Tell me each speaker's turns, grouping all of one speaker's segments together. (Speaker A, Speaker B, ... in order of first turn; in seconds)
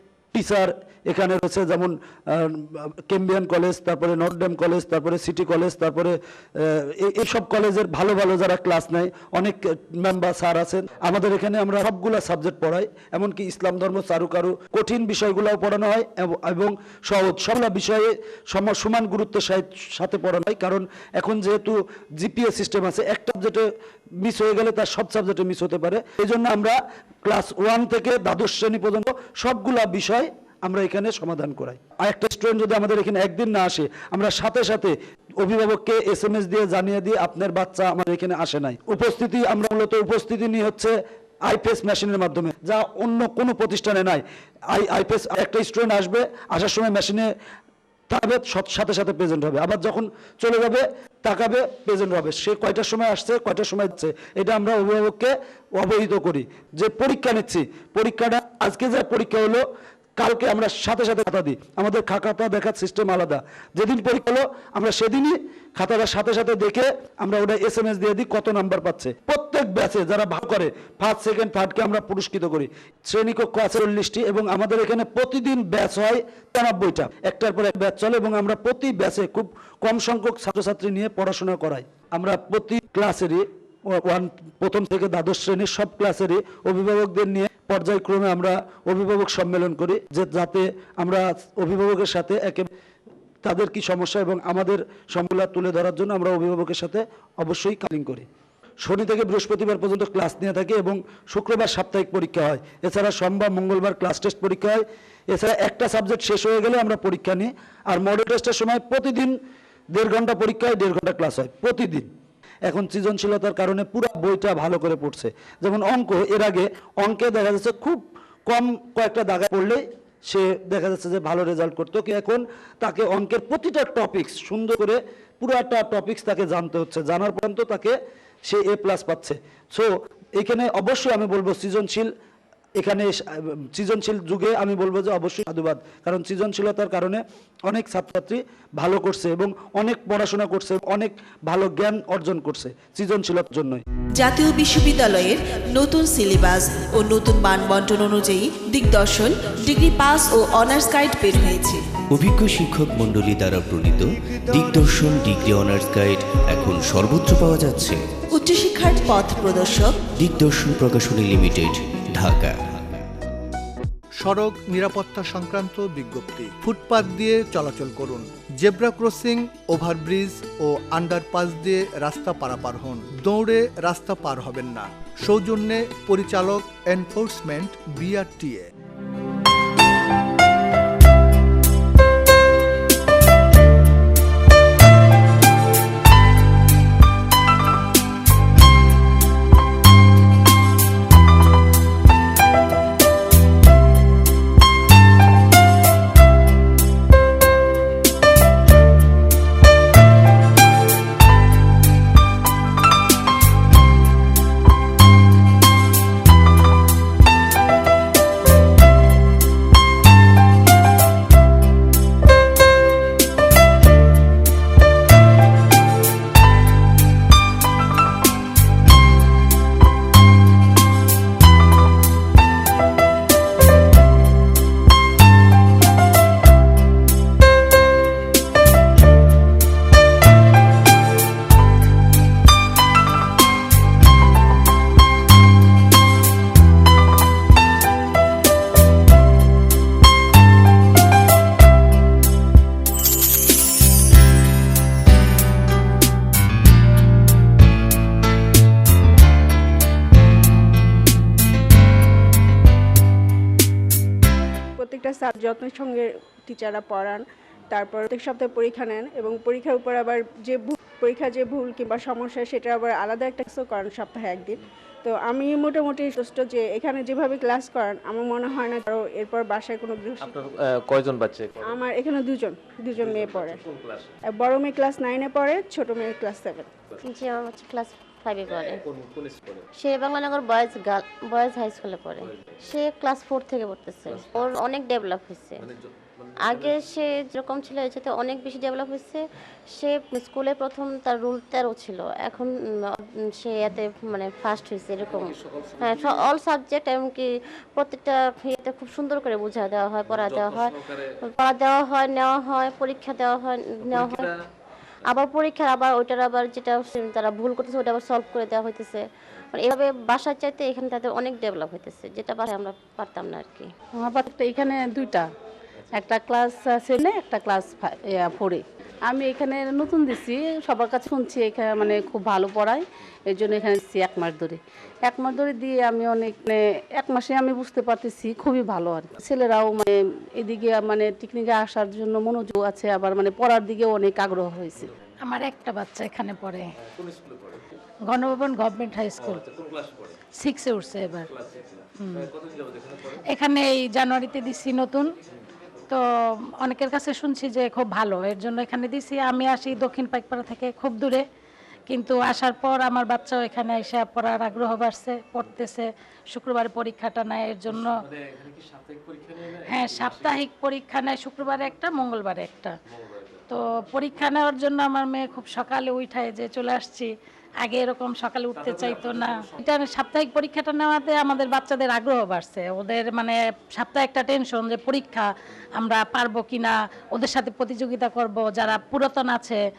Speaker A: 0.3-23.6, 24.2-40.9, 41.5-47.3, 48.1-59.6, 60.2-92.7, 93.4-98.3, 98.8-109.3, 109.9-112.1, 112.7-127.9, 128.4-132.1, 132.8-143.8
Speaker B: 144.2-151.8, 158.3-160.0
Speaker C: 152.1-158.0, 160.2-163.1
Speaker D: 164.2-178.7
Speaker E: 254.8-270.3, 271.6-273.6, 274.3-276.7
Speaker F: 270.2-271.8, 272.9-274.2, 278.6-279.7, 282.2-282.6, 284.1-284.5, 285.6-286.8, 295.0-296.2, 300.1-301.2, 303.8-304.4, 336.8-337.7, 339.2-340.2, 341.2-343.2, 357.7-360.4, 362.9-363.5, 368.5-369.6
Speaker G: 277.1-278.8, 279.8-285.6, 286.4-300.7, 301.2-304.3, 305.0-313.7
Speaker H: 313.9-315.3, 315.9-334.9
Speaker I: 335.2-336.7, 338.1-339.4, 340.4-341.3, 342.0-342.3, 343.2-345.1, 346.6-351.2, 351.9-358.0, 359.7-362.8, 363.5-379.6